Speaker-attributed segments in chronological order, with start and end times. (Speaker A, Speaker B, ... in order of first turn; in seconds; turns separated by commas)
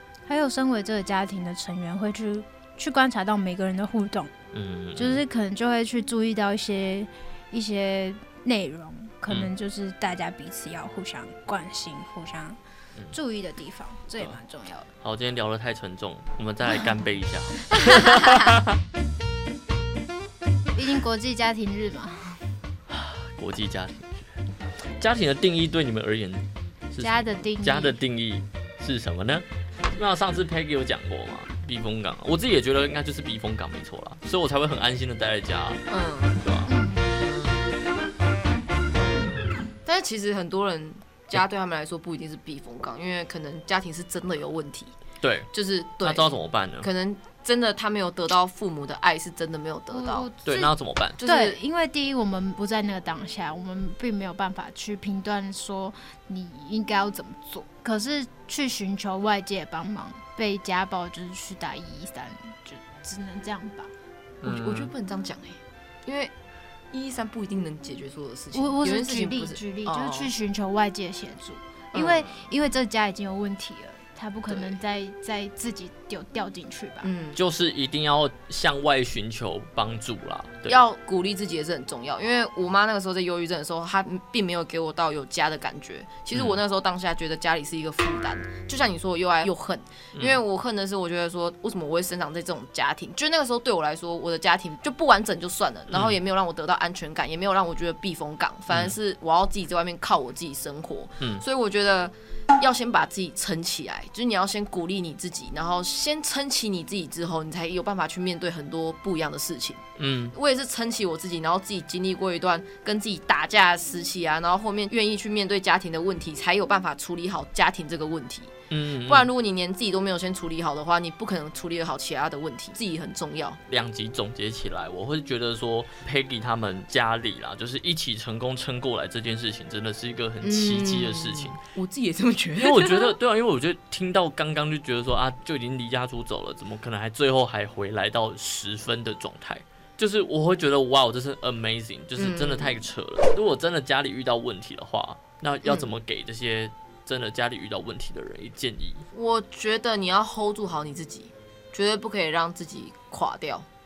Speaker A: 0.3-4.3, Speaker B: 4.5-5.2, Speaker A: 5.0-12.6, Speaker A: 13.1-14.9, Speaker B: 15.0-18.8, Speaker C: 17.9-18.4, Speaker A: 20.7-22.4, Speaker B: 22.9-24.3, Speaker B: 25.0-35.8, Speaker A: 27.0-28.0, Speaker C: 35.9-36.4, Speaker B: 36.4-36.7, Speaker A: 36.7-37.1, Speaker C: 37.2-37.5, Speaker C: 39.8-44.9, Speaker B: 45.2-45.5, Speaker C: 45.5-50.3, Speaker B: 46.0-46.9, Speaker A: 49.9-63.9, Speaker B: 50.4-51.2, Speaker C: 51.2-51.6, Speaker B: 64.4-64.9, Speaker C: 64.4-66.3, Speaker C: 66.9-70.3, Speaker A: 68.5-77.1, Speaker C: 71.9-72.5, Speaker C: 74.5-74.8, Speaker C: 77.0-77.4, Speaker B: 77.3-80.8, Speaker C: 80.7-109.8, Speaker B: 86.3-86.6, Speaker B: 110.0-110.3, Speaker C: 110.3-118.5, Speaker B: 118.7-119.3, Speaker C: 119.1-123.6, Speaker B: 123.7-131.6, Speaker C: 130.4-133.1, Speaker B: 132.6-149.0, Speaker C: 142.2-142.8, Speaker C: 145.6-145.9, Speaker C: 149.1-153.7